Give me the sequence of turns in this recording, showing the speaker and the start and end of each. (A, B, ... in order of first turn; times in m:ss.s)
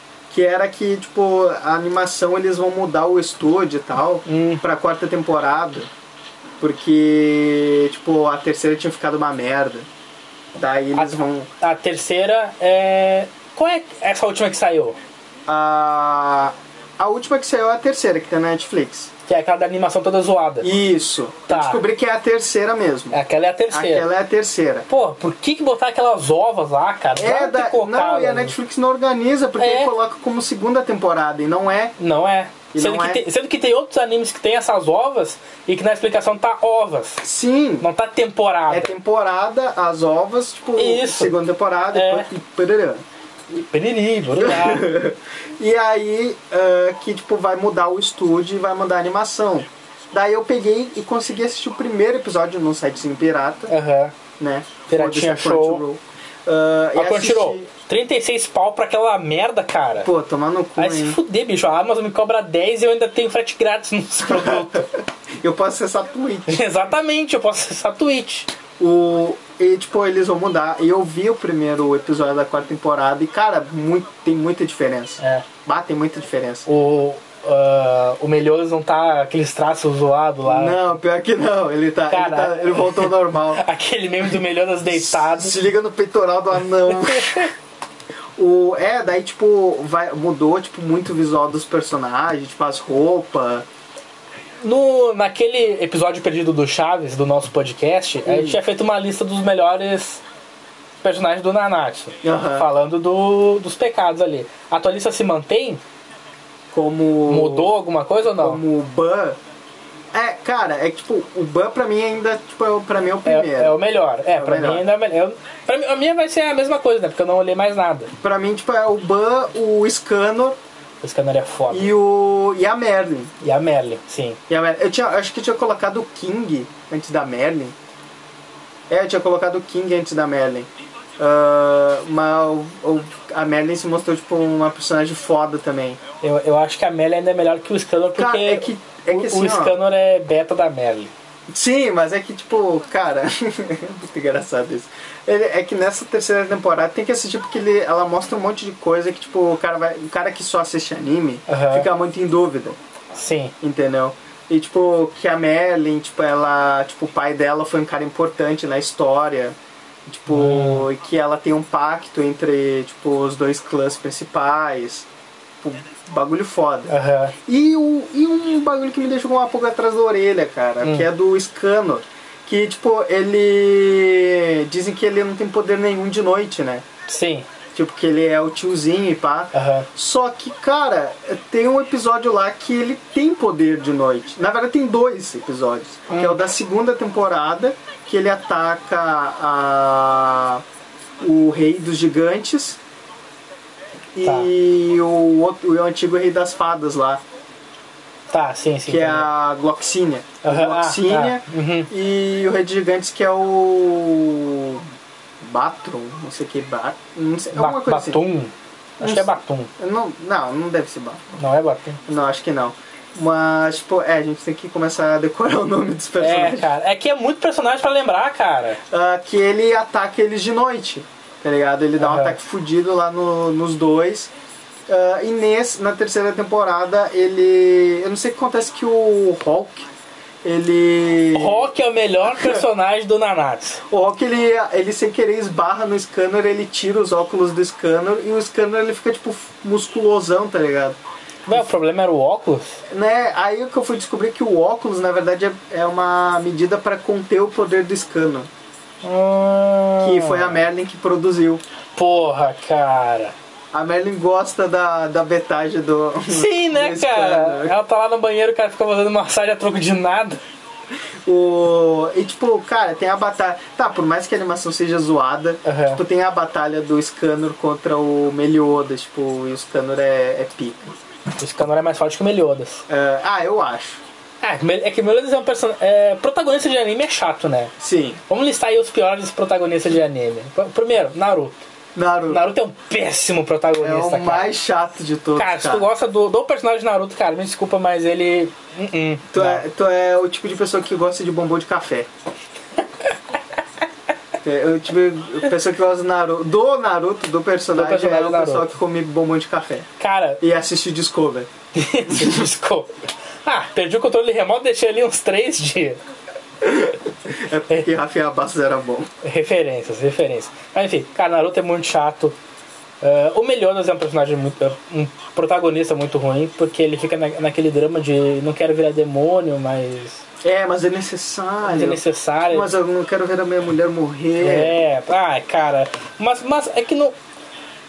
0:00.3-0:05.9 A
0:04.2-0:04.6 B
0:06.6-0:09.9 A
0:10.6-0:11.5 A
0:10.9-0:15.0 B
0:15.5-0:19.1 A
0:19.3-0:20.7 B
0:20.6-0:23.2 A
0:21.5-0:21.8 B
0:23.1-0:24.1 B
0:23.7-0:24.9 A
0:24.9-0:28.5 B
0:27.2-0:32.0 A
0:29.6-0:29.9 B
0:32.0-0:37.2 B
0:32.7-0:33.2 A
0:37.2-0:37.8 A
0:37.8-0:38.9 B
0:38.7-0:43.0 A
0:40.8-0:41.3 B
0:41.9-0:42.3 B
0:43.5-0:44.9 B
0:44.4-0:53.7 A
0:53.7-0:54.1 B
0:54.4-0:57.7 A
0:54.9-0:55.8 B
0:56.9-1:00.1 B
1:00.0-1:01.2 A
1:00.8-1:04.9 B
1:04.3-1:04.9 A
1:05.4-1:06.7 A
1:06.5-1:08.5 B
1:08.8-1:16.7 A
1:15.2-1:15.4 B
1:16.7-1:20.8 B
1:20.4-1:23.6 A
1:22.1-1:25.6 B
1:24.9-1:27.5 A
1:26.9-1:27.5 B
1:28.4-1:33.6 A
1:34.6-1:40.2 B
1:38.2-1:38.6 A
1:41.0-1:45.8 B
1:42.2-1:42.7 A
1:46.7-1:47.7 A
1:47.3-1:48.6 B
1:48.4-1:49.4 A
1:50.1-1:53.7 A
1:53.2-1:58.1 B
1:54.3-1:54.8 A
1:58.2-2:00.6 A
2:01.0-2:01.9 B
2:01.7-2:03.3 A
2:03.4-2:04.4 B
2:04.5-2:07.7 A
2:08.9-2:10.7 A
2:11.2-2:16.0 A
2:16.2-2:21.1 B
2:18.2-2:19.8 A
2:21.5-2:32.8 A
2:31.5-2:31.9 B
2:33.1-2:33.5 B
2:33.6-2:39.6 A
2:40.1-2:45.1 A
2:40.3-2:40.9 B
2:45.6-2:46.9 A
2:46.9-2:47.3 B
2:47.4-2:56.8 A
2:50.8-2:51.1 B
2:57.1-2:57.5 B
2:57.7-3:10.6 A
2:59.5-2:59.9 B
3:06.1-3:06.4 B
3:11.2-3:12.8 A
3:14.2-3:17.2 A
3:14.2-3:14.5 B
3:18.3-3:19.3 B
3:18.9-3:24.8 A
3:20.4-3:21.9 B
3:25.4-3:28.2 A
3:27.5-3:29.7 B
3:29.0-3:31.2 A
3:31.4-3:32.0 B
3:32.0-3:36.7 A
3:36.2-3:38.8 B
3:38.9-3:44.3 A
3:42.0-3:42.4 B
3:44.9-3:49.8 A
3:50.4-3:51.7 A
3:51.3-3:53.8 B
3:53.9-4:01.0 A
4:01.4-4:02.8 B
4:02.9-4:08.5 A
4:09.0-4:10.6 B
4:10.0-4:11.6 A
4:12.0-4:13.3 B
4:13.7-4:17.7 A
4:16.3-4:20.4 B
4:21.2-4:31.0 A
4:25.6-4:26.0 B
4:31.4-4:32.8 B
4:32.9-4:34.0 A
4:34.4-4:37.7 B
4:37.8-4:38.2 A
4:38.3-4:41.6 B
4:41.9-4:42.4 A
4:42.3-4:44.5 B
4:43.8-4:45.9 A
4:45.4-4:49.6 B
4:49.3-4:52.1 A
4:54.4-4:59.9 A
4:57.7-4:58.7 B
5:00.0-5:00.4 B
5:00.4-5:01.5 A
5:01.7-5:06.0 B
5:02.1-5:02.4 A
5:06.6-5:09.1 A
5:09.2-5:12.4 B
5:13.0-5:20.2 B
5:20.4-5:24.8 A
5:21.6-5:22.7 B
5:24.4-5:27.1 B